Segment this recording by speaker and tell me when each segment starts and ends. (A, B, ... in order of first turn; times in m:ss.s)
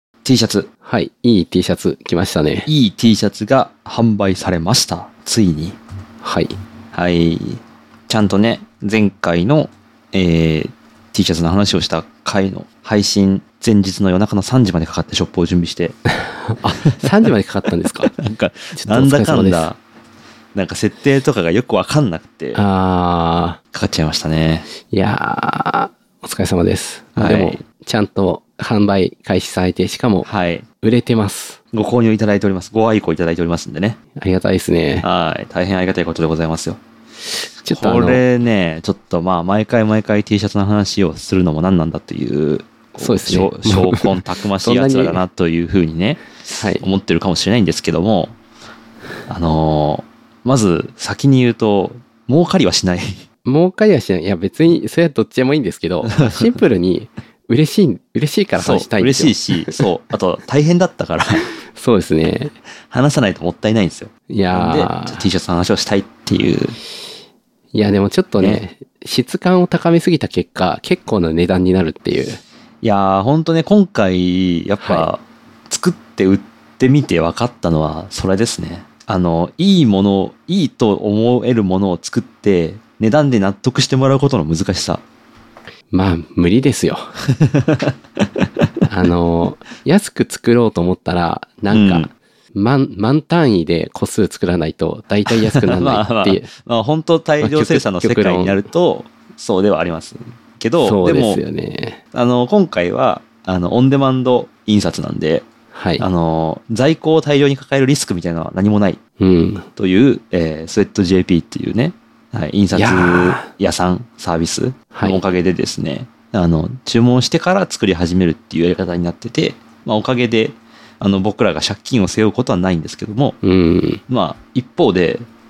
0:00.2-0:00.7 A
0:00.8-0:02.7 B
0:02.7-0:05.8 A
0:06.2-0:06.6 B
0:06.9-0:16.0 A
0:16.1-0:18.1 B
0:16.6-0:17.0 A
0:18.0-0:19.8 A
0:18.8-0:19.7 B
0:20.6-0:22.6 A
0:22.6-0:23.6 B
0:23.7-0:24.7 A
0:24.9-0:30.3 B
0:27.2-0:27.6 A
0:30.2-0:30.6 A
0:30.8-0:31.6 B
0:31.7-0:34.0 A
0:34.2-0:35.0 B
0:35.0-0:36.8 A
0:37.6-0:38.2 B
0:37.6-0:48.3 A
0:43.0-0:45.2 B
0:46.6-0:46.8 B
0:49.3-0:53.2 A
0:53.4-0:59.8 B
0:56.0-0:56.4 A
0:58.6-1:01.5 A
1:01.4-1:02.6 B
1:02.9-1:06.8 A
1:04.3-1:05.2 B
1:07.7-1:12.4 B
1:12.8-1:25.0 A
1:14.8-1:15.1 B
1:25.9-1:27.1 B
1:27.4-1:28.4 A
1:28.9-1:36.5 B
1:31.7-1:32.1 A
1:35.3-1:41.4 A
1:37.4-1:38.7 B
1:40.8-1:42.0 B
1:42.1-1:45.5 A
1:45.7-1:46.0 B
1:46.0-1:49.0 A
1:49.2-1:49.6 B
1:49.8-2:03.4 A
1:52.7-1:53.5 B
1:54.9-1:55.2 B
2:03.4-2:04.0 B
2:04.1-2:05.3 A